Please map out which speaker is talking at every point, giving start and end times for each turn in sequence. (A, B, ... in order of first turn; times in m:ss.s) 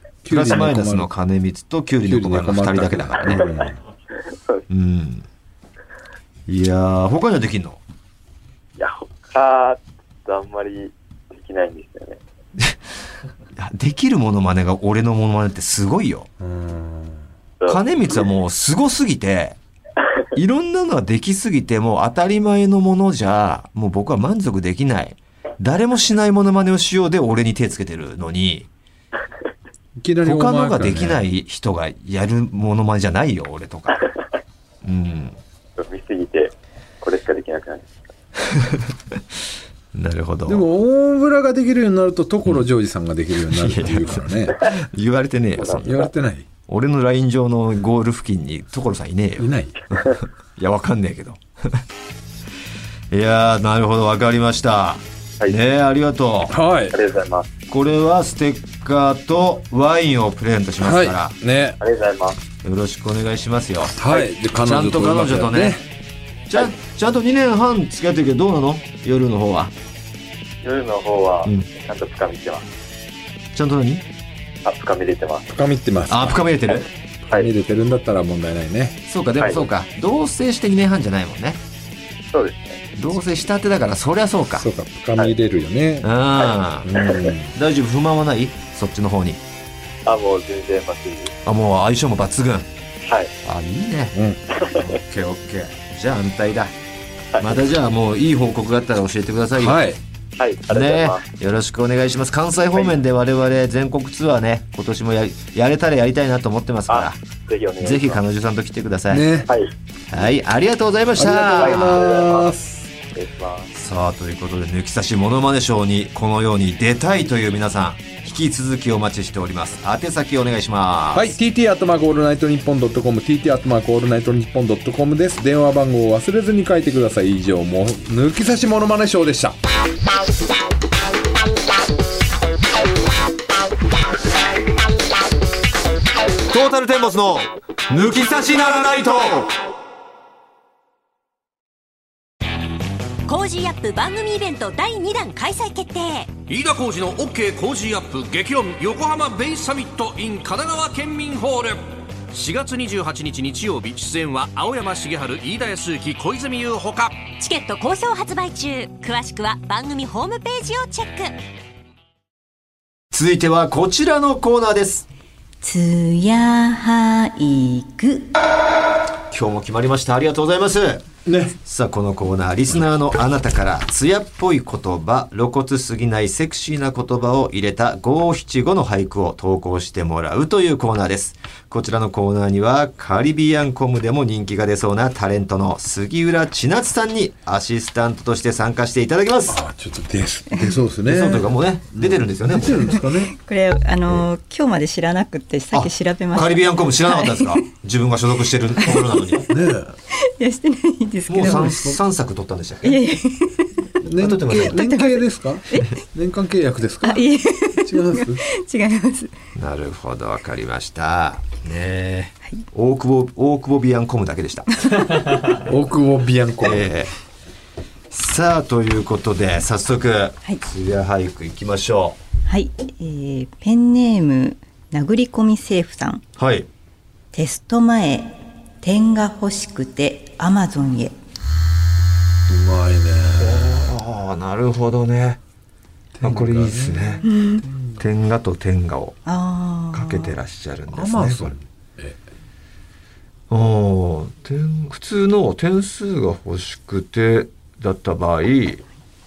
0:00.2-0:01.1 A
0:00.3-0:03.4 B
0:02.0-0:03.8 A
0:04.3-0:04.6 C
0:04.7-0:05.2 B
0:06.5-0:07.8 B
0:08.8-0:12.2 C
0:13.6-0:16.3 B
0:16.4-0:17.2 A
0:17.6-0:18.2 C
0:17.7-0:19.6 B
0:20.3-0:28.7 B
0:30.0-0:31.2 A
0:30.2-0:34.1 B
0:34.8-0:35.4 B
0:35.8-0:38.0 C
0:39.9-0:40.6 B
0:40.4-0:44.6 A
0:43.5-0:46.0 B
0:45.7-0:46.5 A
0:46.7-0:51.8 B
0:49.4-0:49.8 A
0:53.1-0:56.6 B
0:56.5-0:57.0 A
0:56.9-0:57.5 C
0:57.7-1:01.3 B
1:00.8-1:01.8 A
1:01.8-1:02.4 C
1:02.6-1:05.8 B
1:03.9-1:05.8 A
1:06.5-1:09.7 B
1:10.6-1:12.7 C
1:13.5-1:14.0 B
1:14.6-1:15.5 C
1:15.5-1:16.4 A
1:16.1-1:16.9 B
1:17.3-1:19.0 A
1:19.1-1:21.6 B
1:19.4-1:19.6 C
1:22.3-1:22.8 C
1:23.0-1:24.7 B
1:24.6-1:26.1 A
1:26.0-1:26.9 B
1:26.4-1:27.3 C
1:26.8-1:27.5 A
1:27.5-1:29.4 B
1:30.0-1:31.3 C
1:31.4-1:32.7 B
1:33.0-1:33.3 C
1:33.4-1:36.7 B
1:34.1-1:34.4 A
1:34.5-1:34.8 C
1:37.4-1:39.8 B
1:39.6-1:40.0 A
1:40.4-1:41.2 C
1:40.7-1:47.2 B
1:46.9-1:48.2 C
1:47.8-1:49.3 B
1:49.1-1:49.5 A
1:50.1-1:52.0 B
1:51.1-1:52.9 A
1:51.5-1:52.5 C
1:53.1-1:53.7 C
1:53.7-2:01.3 B
2:01.1-2:09.6 A
2:16.5-2:19.5 B
2:23.2-2:26.4 D
2:26.5-2:37.3 E
2:37.3-2:41.4 D
2:43.1-2:45.0 B
2:45.6-2:48.3 F
2:49.3-2:51.0 B
2:51.2-2:51.6 A
2:51.6-3:09.6 B
3:09.5-3:13.3 A
3:11.0-3:13.0 B
3:13.3-3:17.6 F
3:15.7-3:19.5 B
3:18.8-3:19.4 F
3:19.5-3:20.0 A
3:20.1-3:21.9 F
3:21.3-3:23.0 B
3:21.4-3:21.9 A
3:22.8-3:23.9 F
3:24.0-3:28.4 A
3:24.2-3:24.9 B
3:24.6-3:26.0 F
3:27.0-3:29.3 F
3:29.6-3:34.8 B
3:35.5-3:36.9 A
3:36.6-3:37.1 B
3:38.1-3:42.2 B
3:42.5-3:46.2 F
3:46.4-3:46.7 B
3:47.3-3:51.1 F
3:52.5-3:53.9 A
3:53.4-3:55.4 B
3:56.2-3:58.0 A
3:56.2-3:57.3 B
3:57.2-3:57.6 F
3:58.0-3:59.2 B
3:59.2-4:00.4 F
3:59.9-4:01.6 B
4:00.9-4:02.2 A
4:03.5-4:08.8 B